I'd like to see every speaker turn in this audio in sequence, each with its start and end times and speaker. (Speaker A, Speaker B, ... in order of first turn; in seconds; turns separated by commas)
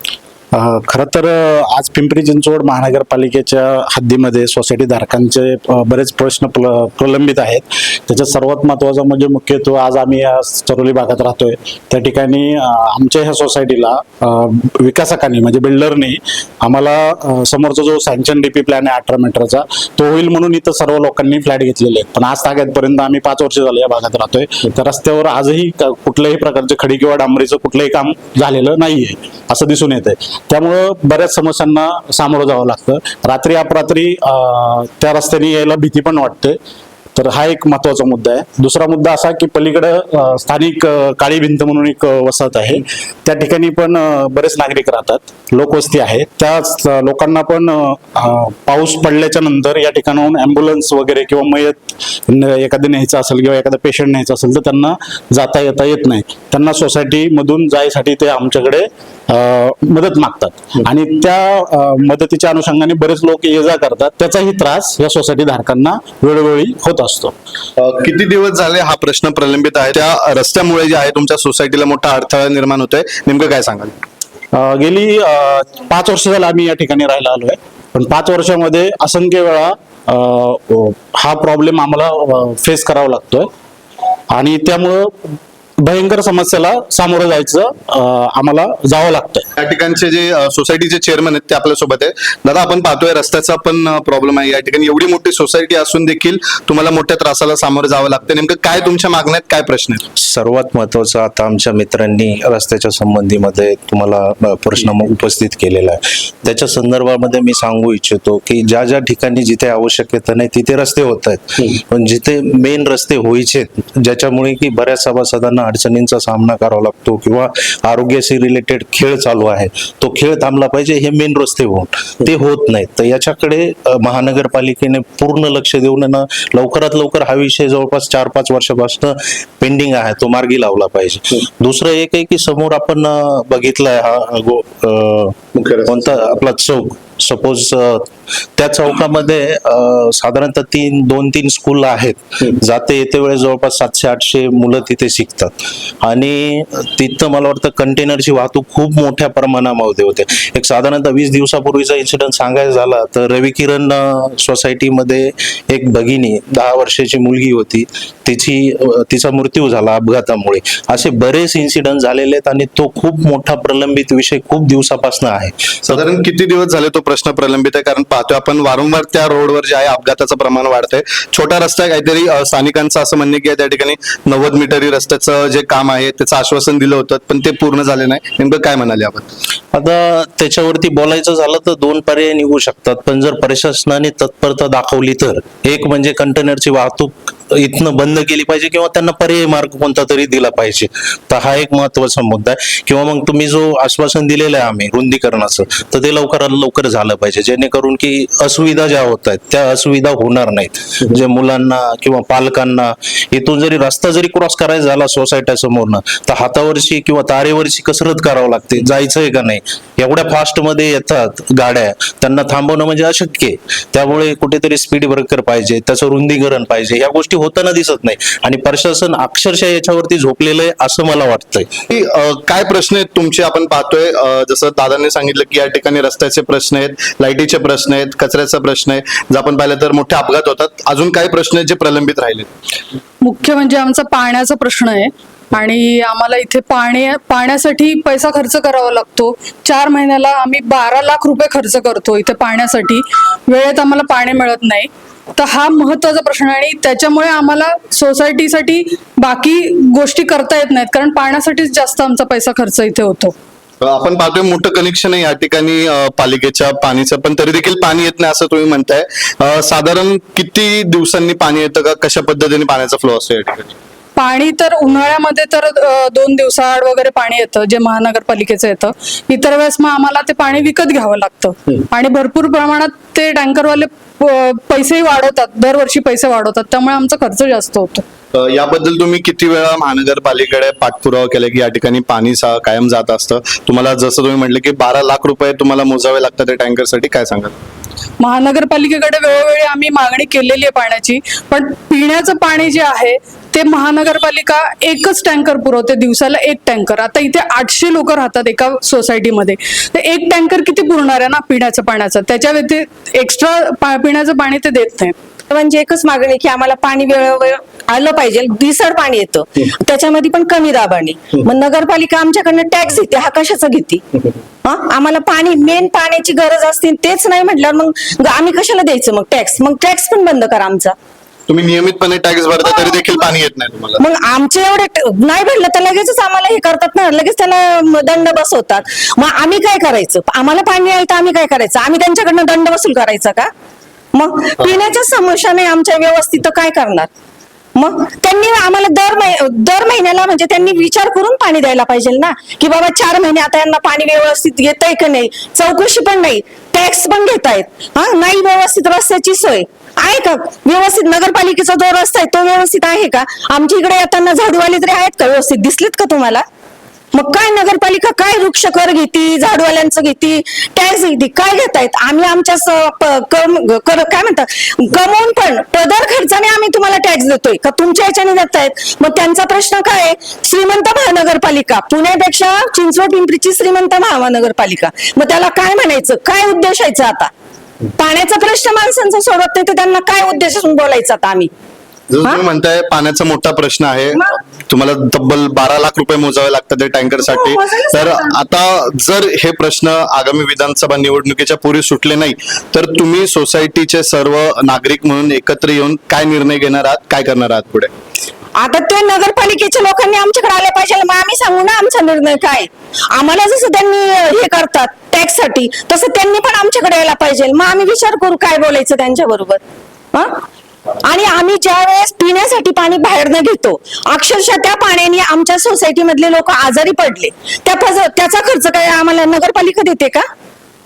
Speaker A: 0.5-36.6, Speaker A: 37.1-67.3, Speaker B: 67.8-73.9, Speaker A: 74.5-83.5, Speaker A: 84.3-85.1, Speaker A: 85.8-89.5, Speaker B: 89.6-100.0, Speaker C: 100.2-166.0, Speaker B: 165.8-179.2, Speaker C: 179.7-221.7, Speaker B: 221.9-232.5, Speaker D: 233.2-253.3, Speaker B: 253.8-263.7, Speaker D: 264.2-278.0, Speaker B: 278.4-287.5, Speaker D: 288.2-305.1, Speaker E: 305.5-314.0, Speaker E: 314.6-320.9, Speaker B: 321.5-324.0, Speaker E: 324.0-333.5, Speaker E: 334.1-337.1, Speaker E: 337.8-356.4, Speaker E: 357.1-377.3, Speaker E: 378.0-381.5, Speaker B: 382.3-384.1, Speaker B: 384.7-397.9, Speaker E: 387.2-388.3, Speaker E: 398.6-409.6, Speaker E: 410.1-410.4, Speaker E: 411.1-420.2